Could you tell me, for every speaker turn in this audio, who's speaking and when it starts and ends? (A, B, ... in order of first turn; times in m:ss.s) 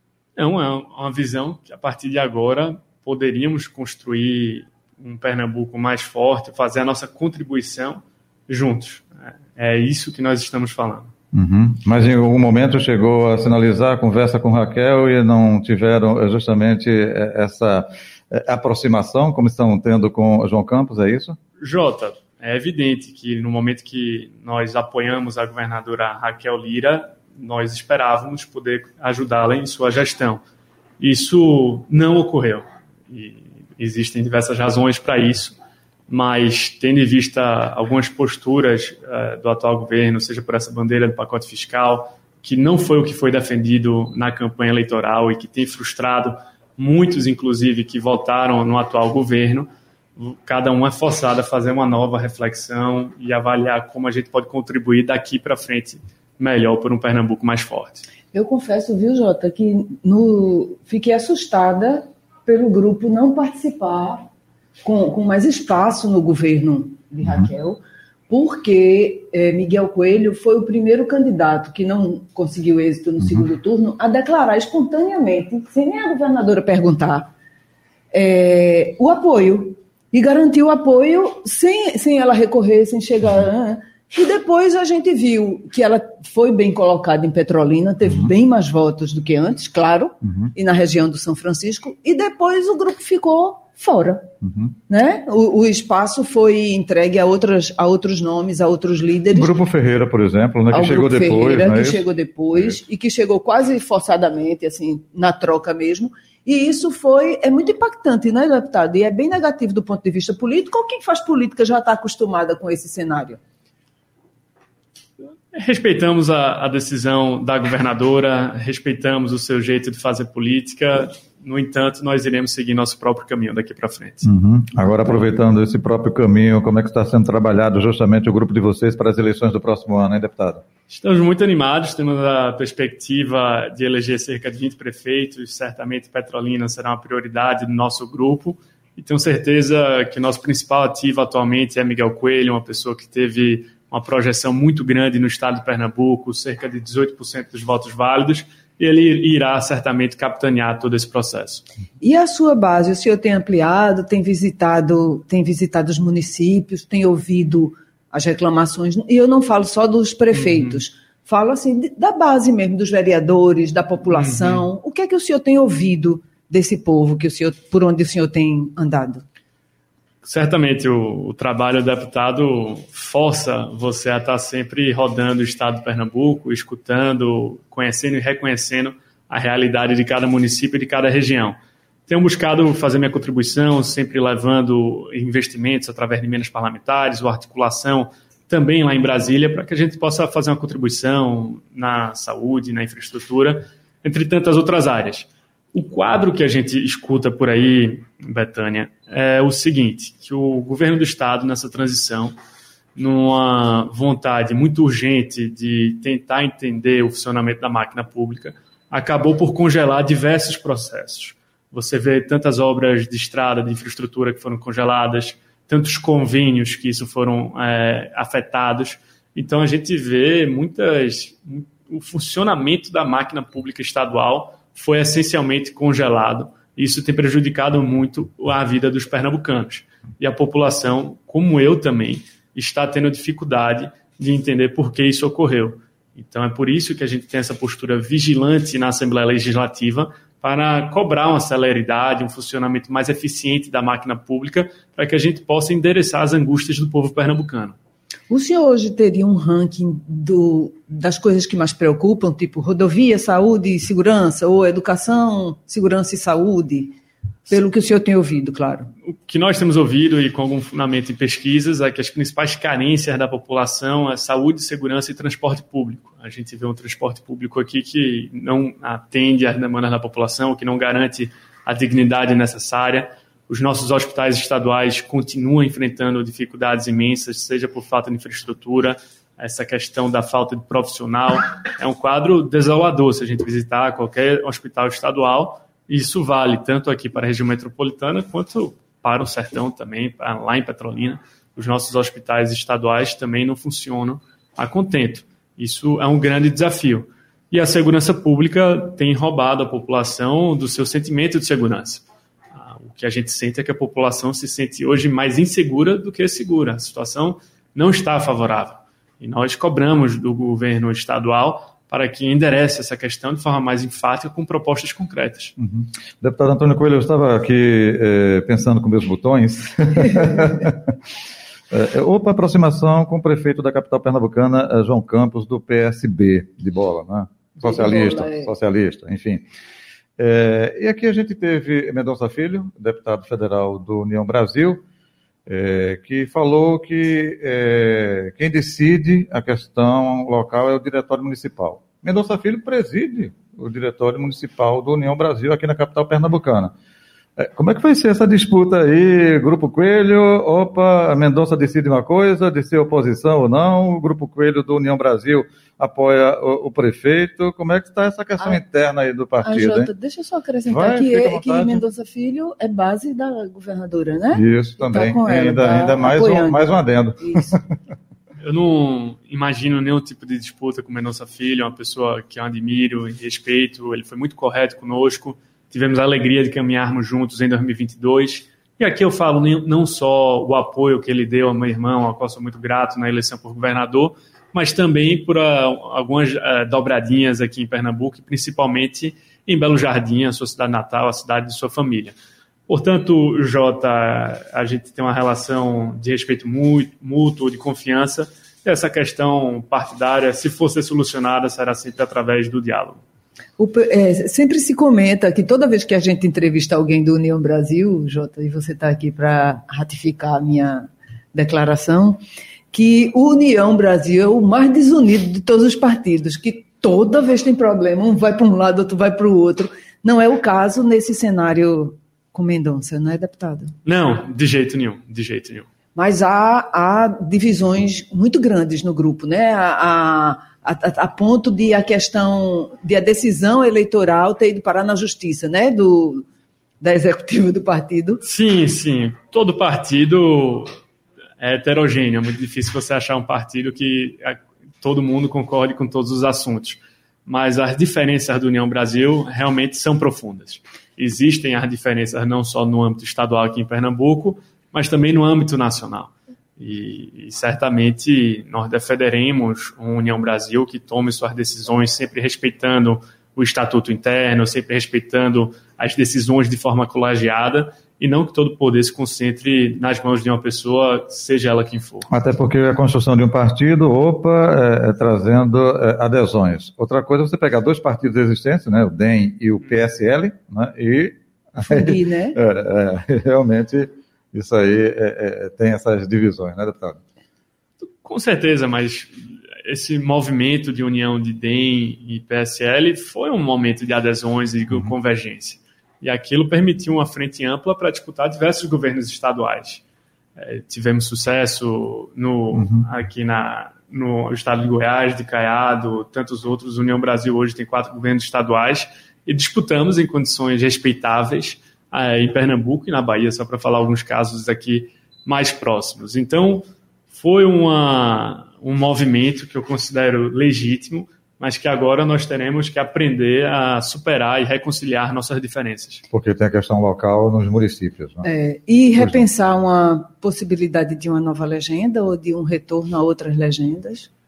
0:00.4-0:11.1 A
0:11.3-0:21.4 B
0:21.6-0:30.4 A
0:31.0-0:35.6 A
0:36.1-0:58.0 A
0:58.3-1:04.3 C
1:04.8-1:17.3 C
1:18.1-1:34.3 C
1:34.4-1:34.7 B
1:34.9-1:39.5 C
1:39.3-1:42.8 B
1:40.7-1:53.4 C
1:55.5-2:04.3 A
2:04.2-2:10.6 B
2:10.9-2:31.6 A
2:32.0-2:49.2 C
2:40.3-2:40.8 A
2:44.1-2:44.6 A
2:50.2-3:22.3 A
3:23.0-4:07.8 A
4:08.3-4:17.0 C
4:17.5-4:18.9 C
4:19.1-5:02.0 A
5:02.5-5:15.5 A
5:15.6-5:21.0 B
5:21.7-5:29.4 B
5:27.6-5:28.5 C
5:30.2-5:34.8 B
5:35.5-5:46.7 B
5:47.4-5:59.9 B
5:59.4-6:07.6 C
6:00.7-6:01.8 B
6:04.3-6:07.6 B
6:08.4-6:32.1 A
6:32.7-6:43.0 A
6:43.6-6:52.2 C
6:52.7-7:03.7 C
7:03.8-7:05.6 A
7:06.0-7:16.2 C
7:16.8-7:18.2 C
7:18.2-7:20.7 A
7:21.4-7:52.1 A
7:52.1-8:07.0 B
8:01.6-8:02.4 C
8:07.8-8:19.8 A
8:20.4-8:46.0 A
8:22.5-8:22.9 B
8:46.1-8:48.2 B
8:48.2-8:54.1 C
8:49.0-8:49.2 B